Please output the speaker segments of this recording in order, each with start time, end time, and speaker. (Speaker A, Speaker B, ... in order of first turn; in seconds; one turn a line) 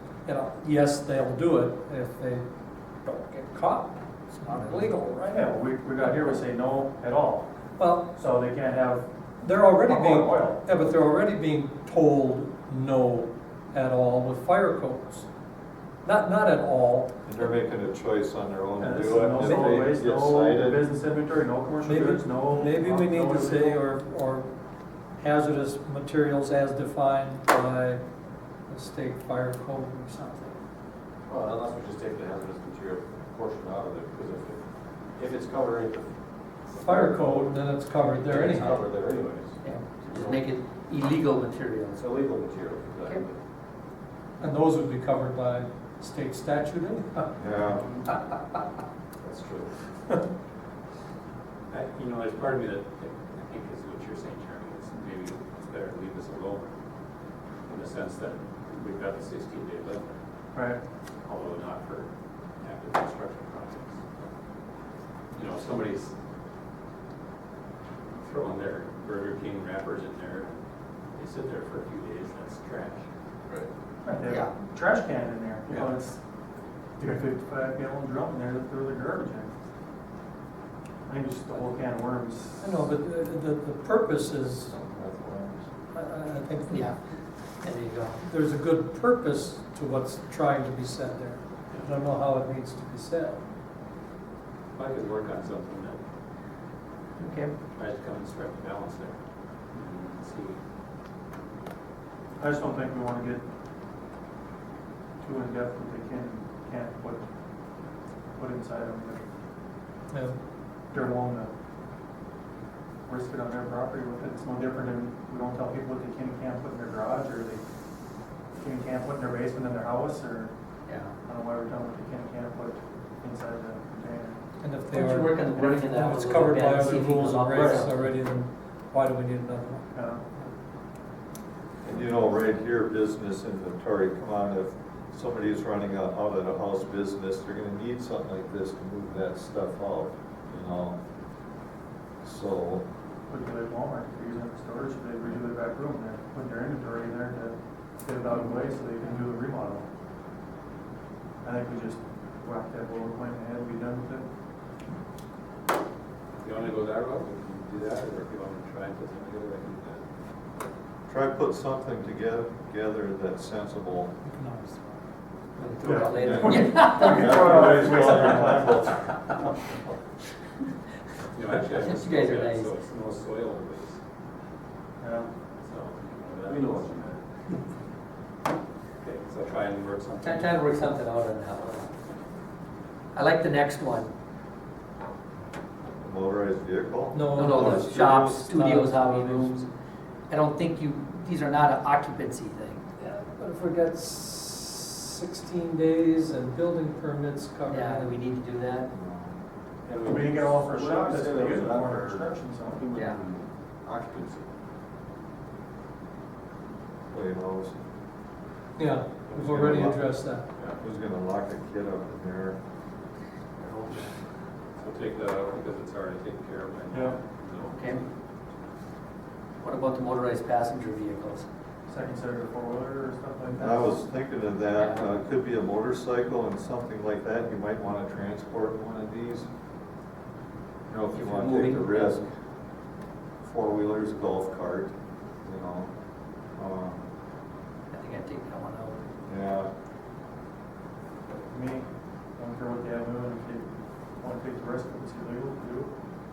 Speaker A: 0.2-2.5
Speaker A: 3.0-5.3
Speaker B: 5.2-7.5
Speaker A: 7.8-8.2
Speaker B: 8.2-9.1
Speaker A: 9.4-15.3
Speaker B: 9.8-10.7
Speaker A: 16.0-17.1
Speaker C: 17.2-20.8
Speaker B: 18.8-23.8
Speaker A: 19.4-19.8
Speaker A: 21.8-24.5
Speaker A: 25.2-28.0
Speaker A: 28.7-30.6
Speaker D: 31.3-36.1
Speaker D: 36.7-37.5
Speaker A: 36.7-38.8
Speaker D: 38.2-40.4
Speaker E: 39.6-42.1
Speaker D: 42.0-43.4
Speaker A: 44.4-47.3
Speaker C: 47.4-47.8
Speaker D: 49.2-49.7
Speaker F: 51.7-56.7
Speaker F: 57.6-60.2
Speaker B: 60.5-60.8
Speaker F: 61.2-62.1
Speaker F: 62.6-64.0
Speaker F: 65.3-66.1
Speaker F: 68.2-70.6
Speaker F: 71.1-73.1
Speaker B: 74.0-76.2
Speaker E: 74.2-74.5
Speaker B: 77.0-79.5
Speaker B: 81.1-82.9
Speaker A: 82.6-84.7
Speaker C: 84.7-85.7
Speaker A: 85.9-86.9
Speaker E: 86.7-87.0
Speaker E: 87.6-88.2
Speaker A: 88.2-93.4
Speaker F: 94.7-96.0
Speaker E: 97.2-97.5
Speaker F: 97.7-99.2
Speaker F: 99.7-100.6
Speaker B: 102.4-103.4
Speaker B: 105.2-107.2
Speaker B: 108.4-109.2
Speaker A: 110.1-110.4
Speaker B: 110.9-111.5
Speaker B: 113.1-117.6
Speaker B: 118.5-120.5
Speaker E: 120.9-121.1
Speaker B: 121.2-124.4
Speaker A: 124.6-130.5
Speaker E: 124.9-128.1
Speaker B: 129.9-130.2
Speaker C: 131.8-141.0
Speaker C: 142.2-142.8
Speaker B: 143.3-149.8
Speaker B: 151.4-154.2
Speaker F: 156.4-160.0
Speaker C: 161.1-164.1
Speaker A: 164.4-164.7
Speaker E: 165.6-168.0
Speaker B: 165.8-168.7
Speaker C: 165.9-169.3
Speaker F: 171.3-174.0
Speaker E: 171.7-172.7
Speaker B: 175.0-175.3
Speaker F: 175.6-177.2
Speaker D: 176.4-177.2
Speaker F: 179.0-180.6
Speaker E: 180.2-181.9
Speaker E: 183.1-184.1
Speaker C: 186.0-188.4
Speaker A: 187.1-189.7
Speaker E: 187.3-189.7
Speaker E: 190.3-192.8
Speaker A: 193.0-198.1
Speaker E: 197.7-198.9
Speaker C: 198.9-199.4
Speaker D: 199.8-204.4
Speaker B: 200.0-202.9
Speaker C: 207.1-207.9
Speaker A: 208.8-210.4
Speaker C: 209.3-210.1
Speaker C: 210.8-212.6
Speaker F: 214.8-218.0
Speaker B: 216.9-217.2
Speaker E: 217.7-218.0
Speaker E: 219.6-221.4
Speaker B: 221.9-224.0
Speaker C: 223.5-229.5
Speaker C: 230.9-232.3
Speaker E: 231.1-232.3
Speaker C: 233.4-234.9
Speaker C: 235.4-235.9
Speaker C: 236.6-237.0
Speaker E: 237.9-239.0
Speaker C: 239.2-239.7
Speaker B: 241.5-241.8
Speaker B: 242.4-245.9